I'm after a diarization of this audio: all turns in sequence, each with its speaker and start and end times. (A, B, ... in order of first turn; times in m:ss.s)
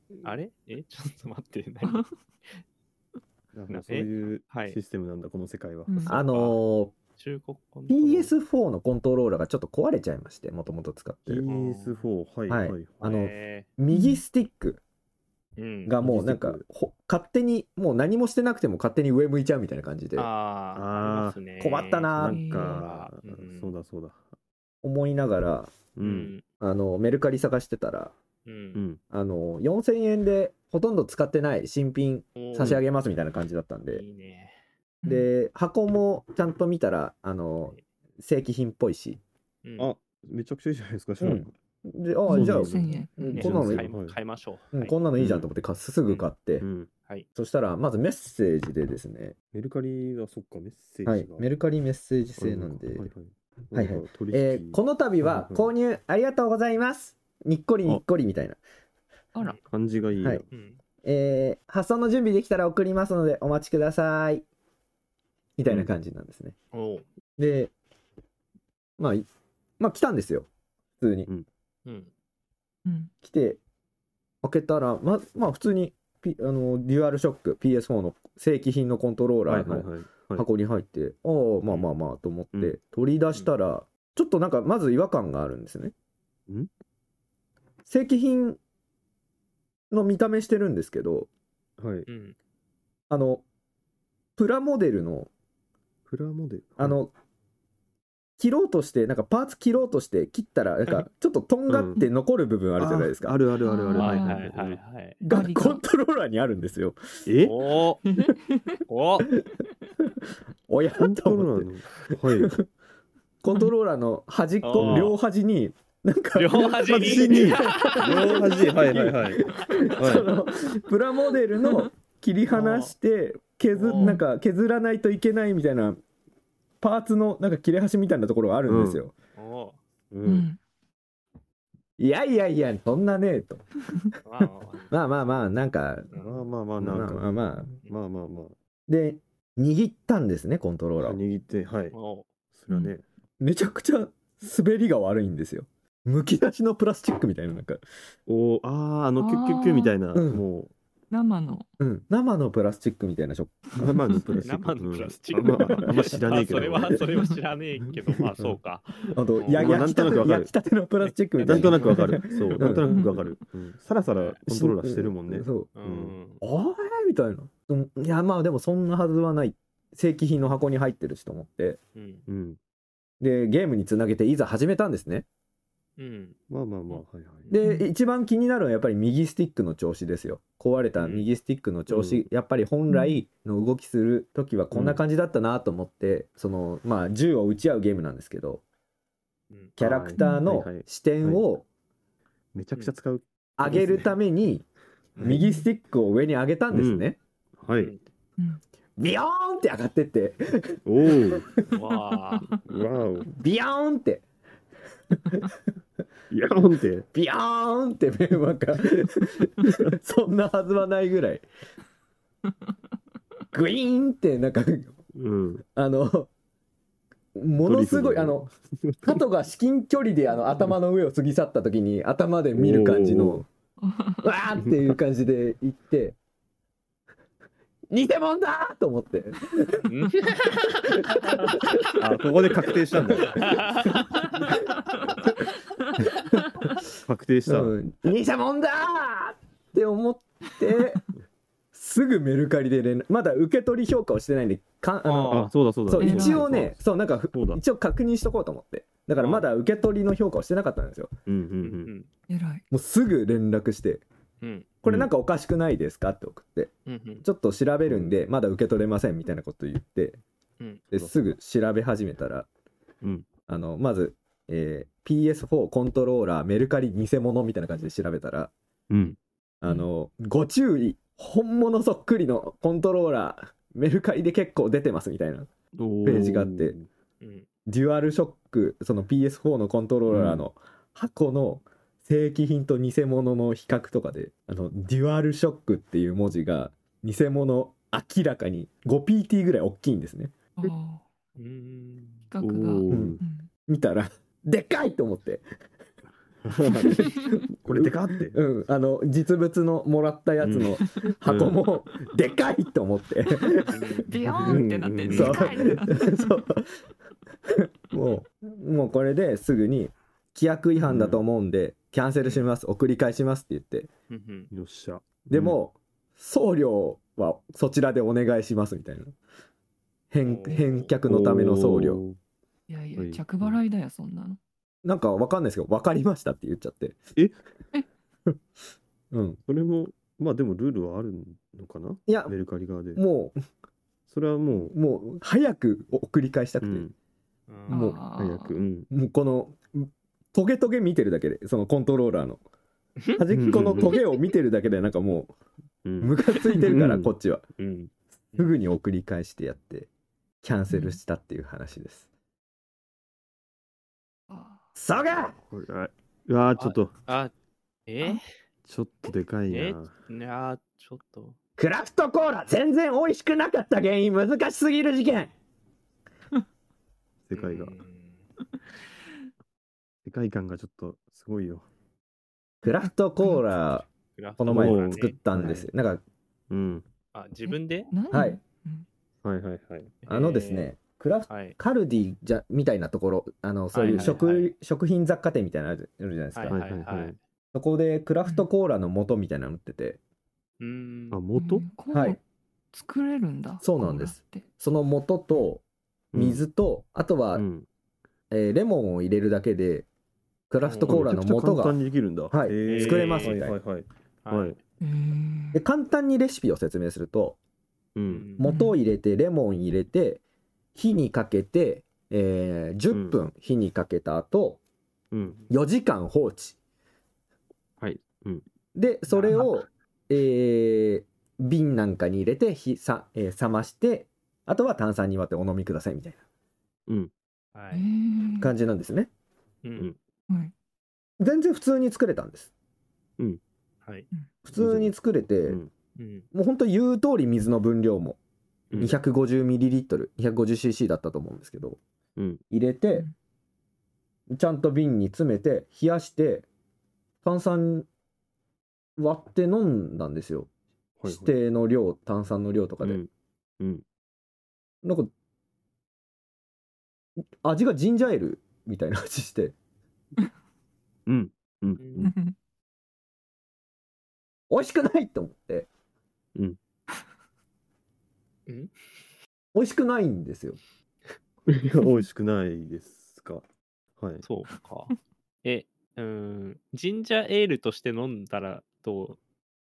0:00.2-0:02.0 A
0:03.5-0:06.3 B
0:03.7-0:04.8 A
0:05.9-0:06.2 C
0:06.1-0:06.9 D
0:06.3-0:06.6 A
0:07.2-0:08.3 A
0:07.9-0:11.4 D
0:11.3-0:13.0 B
0:11.5-0:12.1 A
0:12.5-0:14.8 D
0:13.0-0:13.7 A
0:13.9-0:14.2 C
0:15.6-0:15.9 A
0:15.9-0:20.3 D
0:16.0-0:16.6 B
0:20.2-0:23.7 A
0:20.8-0:21.4 B
0:21.6-0:22.4 D
0:22.1-0:24.2 B
0:22.3-0:22.8 C
0:24.8-0:25.8 D
0:26.0-0:26.3 B
0:26.0-0:26.4 A
0:26.6-0:28.1 D
0:28.5-0:28.8 A
0:28.8-0:29.0 B
0:29.1-0:34.0 D
0:32.4-0:32.8 A
0:32.6-0:32.8 B
0:33.9-0:34.6 A
0:35.0-0:35.3 C
0:35.0-0:39.2 D
0:39.6-0:39.9 A
0:39.8-0:41.5 B
0:41.2-0:43.9 D
0:42.3-0:43.4 C
0:42.3-0:44.2 B
0:43.3-0:45.0 A
0:44.7-0:46.7 D
0:45.2-0:45.5 B
0:46.6-0:46.9 B
0:47.4-0:49.3 D
0:49.5-0:51.5 B
0:51.1-0:53.1 D
0:52.4-0:55.7 B
0:53.7-0:58.6 D
0:59.7-1:00.5 B
1:00.5-1:00.8 A
1:01.0-1:04.5 D
1:05.6-1:06.6 D
1:06.7-1:07.0 A
1:07.4-1:07.7 D
1:09.0-1:09.3 D
1:09.8-1:10.5 D
1:11.0-1:11.3 D
1:11.9-1:12.1 A
1:12.8-1:13.1 C
1:13.2-1:13.6 D
1:14.4-1:25.9 D
1:19.5-1:20.5 B
1:27.9-1:28.6 D
1:29.9-1:31.3 D
1:31.8-1:32.1 B
1:32.1-1:32.4 A
1:33.1-1:33.4 D
1:34.4-1:35.3 D
1:36.1-1:37.0 B
1:36.8-1:37.1 D
1:38.4-1:43.4 D
1:41.7-1:42.0 B
1:42.8-1:44.8 B
1:43.6-1:44.4 C
1:44.0-1:45.2 A
1:45.2-1:47.3 D
1:45.3-1:45.8 C
1:47.3-1:47.6 B
1:47.4-1:48.0 A
1:48.0-1:48.8 C
1:48.9-1:49.3 A
1:49.4-1:52.7 D
1:51.0-1:52.6 B
1:53.4-2:06.0 D
1:54.6-1:55.2 A
1:54.8-1:55.2 B
1:56.4-1:58.6 A
1:56.8-1:59.4 B
2:00.0-2:00.3 B
2:02.5-2:02.9 A
2:03.7-2:04.2 A
2:06.8-2:09.1 D
2:08.7-2:09.0 B
2:09.4-2:09.8 A
2:10.1-2:10.5 B
2:10.2-2:10.6 C
2:12.0-2:13.6 D
2:14.2-2:14.9 A
2:14.9-2:16.1 D
2:16.1-2:16.4 A
2:16.2-2:17.3 B
2:16.8-2:17.7 D
2:17.9-2:18.6 B
2:18.9-2:21.2 D
2:21.0-2:22.0 B
2:21.9-2:22.2 A
2:22.5-2:23.0 B
2:23.4-2:27.8 D
2:28.3-2:30.7 B
2:29.2-2:29.9 C
2:30.2-2:30.4 D
2:31.1-2:31.7 C
2:31.8-2:33.8 D
2:33.8-2:37.1 B
2:34.4-2:40.3 A
2:39.0-2:42.9 D
2:39.5-2:40.5 B
2:41.0-2:42.2 A
2:41.4-2:46.2 B
2:42.9-2:43.4 C
2:44.1-2:44.4 A
2:44.5-2:45.7 D
2:45.7-2:46.4 A
2:46.4-2:51.8 D
2:52.0-2:52.2 A
2:52.3-2:52.6 B
2:53.2-2:55.3 D
2:56.0-2:56.4 A
2:56.5-2:57.5 B
2:56.9-2:57.5 A
2:57.5-3:08.6 D
2:57.5-2:57.9 C
3:01.0-3:01.2 A
3:01.9-3:02.2 B
3:02.9-3:03.2 C
3:04.7-3:05.0 B
3:09.5-3:09.8 A
3:09.8-3:11.4 B
3:09.8-3:11.6 D
3:10.2-3:10.5 C
3:12.5-3:14.2 B
3:13.6-3:14.6 D
3:15.2-3:15.5 B
3:15.2-3:17.2 D
3:15.4-3:15.6 C
3:16.7-3:17.9 B
3:17.8-3:18.0 A
3:19.0-3:21.7 D
3:20.8-3:21.5 B
3:21.7-3:22.6 A
3:22.6-3:23.3 B
3:23.3-3:24.2 D
3:25.1-3:25.6 D
3:26.3-3:27.1 B
3:27.1-3:31.4 D
3:33.5-3:35.0 D
3:35.1-3:35.6 B
3:35.8-3:36.3 D
3:37.4-3:38.5 D
3:37.6-3:39.2 B
3:39.0-3:43.5 D
3:42.6-3:43.4 B
3:43.8-3:44.3 C
3:44.2-3:46.2 D
3:44.6-3:45.0 B
3:47.9-3:49.9 D
3:49.9-3:51.3 A
3:50.9-3:51.8 D
3:52.0-3:53.9 B
3:53.3-3:54.3 A
3:53.3-3:53.7 D
3:56.3-3:56.8 D
3:57.0-3:57.8 B
3:57.5-4:01.0 D
4:01.7-4:11.1 D
4:05.0-4:05.5 A
4:05.3-4:06.8 B
4:06.0-4:06.7 C
4:07.3-4:07.6 B
4:09.2-4:09.5 A
4:11.3-4:11.9 B
4:11.6-4:12.1 A
4:12.3-4:12.6 C
4:12.7-4:14.0 D
4:14.4-4:14.7 A
4:14.8-4:16.7 D
4:14.9-4:15.1 B
4:16.9-4:17.2 A
4:17.2-4:20.2 D
4:17.8-4:18.2 B
4:20.6-4:20.8 A
4:20.9-4:22.5 D
4:20.9-4:21.2 B
4:23.0-4:23.3 B
4:23.5-4:28.5 D
4:28.9-4:29.2 B
4:29.6-4:35.5 D
4:35.8-4:36.9 B
4:36.0-4:36.8 D
4:37.2-4:37.5 A
4:37.7-4:50.3 D
4:40.1-4:40.4 B
4:50.6-4:51.0 C
4:51.4-4:52.3 A
4:52.3-4:53.5 C
4:52.4-4:53.2 B
4:52.9-4:55.4 D
4:56.4-4:58.4 B
4:56.8-5:04.1 D
5:00.4-5:01.6 B
5:03.7-5:04.1 A
5:04.0-5:06.5 C
5:04.2-5:05.5 B
5:04.6-5:06.8 D
5:07.4-5:13.9 D
5:10.8-5:11.2 B
5:14.1-5:14.5 A
5:14.5-5:15.6 B
5:15.3-5:19.2 D
5:20.1-5:22.0 D
5:20.2-5:20.9 A
5:21.0-5:22.2 B
5:22.7-5:24.4 C
5:23.0-5:23.6 B
5:24.8-5:27.0 D
5:29.1-5:29.4 D
5:29.5-5:33.0 B
5:32.1-5:32.3 D
5:33.0-5:33.4 D
5:34.1-5:34.8 B
5:34.7-5:36.9 D
5:36.6-5:36.9 B
5:37.5-5:37.8 A
5:37.7-5:38.0 D
5:37.7-5:38.6 C
5:38.2-5:38.9 B
5:38.9-5:42.4 D
5:43.0-5:43.9 A
5:43.2-5:45.3 D
5:43.3-5:44.0 B
5:45.8-5:47.9 B
5:46.0-5:47.4 D
5:48.3-5:49.9 D
5:50.4-5:52.1 D
5:50.7-5:51.0 C
5:54.3-5:54.6 C
5:54.8-5:55.4 D
5:55.4-5:56.9 B
5:56.6-5:57.3 A
5:57.9-5:58.3 A
5:58.7-5:59.9 B
5:59.5-6:01.4 A
6:01.6-6:05.3 D
6:07.3-6:07.7 B
6:07.3-6:08.2 A
6:10.0-6:11.7 B
6:12.6-6:13.8 D
6:14.2-6:15.6 A
6:14.4-6:16.0 D
6:14.5-6:15.7 B
6:16.5-6:16.8 B
6:17.1-6:17.9 A
6:17.5-6:18.9 C
6:18.1-6:18.4 D
6:19.2-6:20.0 B
6:20.0-6:20.7 A
6:20.1-6:26.6 D
6:21.3-6:21.6 A
6:23.7-6:24.5 A
6:23.8-6:24.2 B
6:26.4-6:27.2 A
6:26.5-6:27.2 B
6:27.5-6:30.0 D
6:30.6-6:31.2 A
6:31.1-6:31.7 B
6:31.4-6:32.2 C
6:31.9-6:32.2 D
6:32.7-6:34.5 C
6:33.6-6:35.6 D
6:36.1-6:36.4 B
6:36.1-6:37.4 D
6:37.4-6:37.7 B
6:38.3-6:39.9 D
6:40.5-6:41.8 D
6:40.6-6:41.1 A
6:40.8-6:44.6 B
6:42.3-6:43.6 D
6:42.6-6:43.4 A
6:44.2-6:44.6 A
6:44.8-6:45.6 C
6:45.5-6:47.4 D
6:48.0-6:48.4 B
6:48.1-6:48.4 A
6:48.4-6:50.2 D
6:48.4-6:48.8 C
6:50.8-6:54.6 D
6:52.9-6:53.2 B
6:55.1-6:55.4 B
6:55.5-6:56.6 D
6:57.8-6:58.4 B
6:58.8-7:06.2 D
6:59.1-6:59.6 A
7:06.9-7:07.1 B
7:07.6-7:07.8 A
7:07.7-7:08.5 C
7:08.4-7:09.1 D
7:09.6-7:09.9 A
7:11.2-7:12.5 D
7:14.4-7:15.6 D
7:14.5-7:14.9 B
7:16.0-7:16.2 A
7:16.3-7:18.2 D
7:18.7-7:19.0 B
7:18.8-7:21.8 D
7:22.5-7:23.1 D
7:24.3-7:26.5 D
7:27.2-7:27.9 D
7:29.0-7:30.5 D
7:31.0-7:31.3 B
7:31.0-7:33.0 D
7:32.8-7:33.8 B
7:34.8-7:35.1 D
7:37.4-7:39.6 D
7:41.1-7:42.2 B
7:41.8-7:42.1 A
7:42.0-7:42.4 C
7:44.5-7:45.7 D
7:48.5-7:48.8 A
7:49.5-7:50.6 D
7:51.5-7:53.4 B
7:54.0-7:54.2 B
7:54.2-7:59.2 A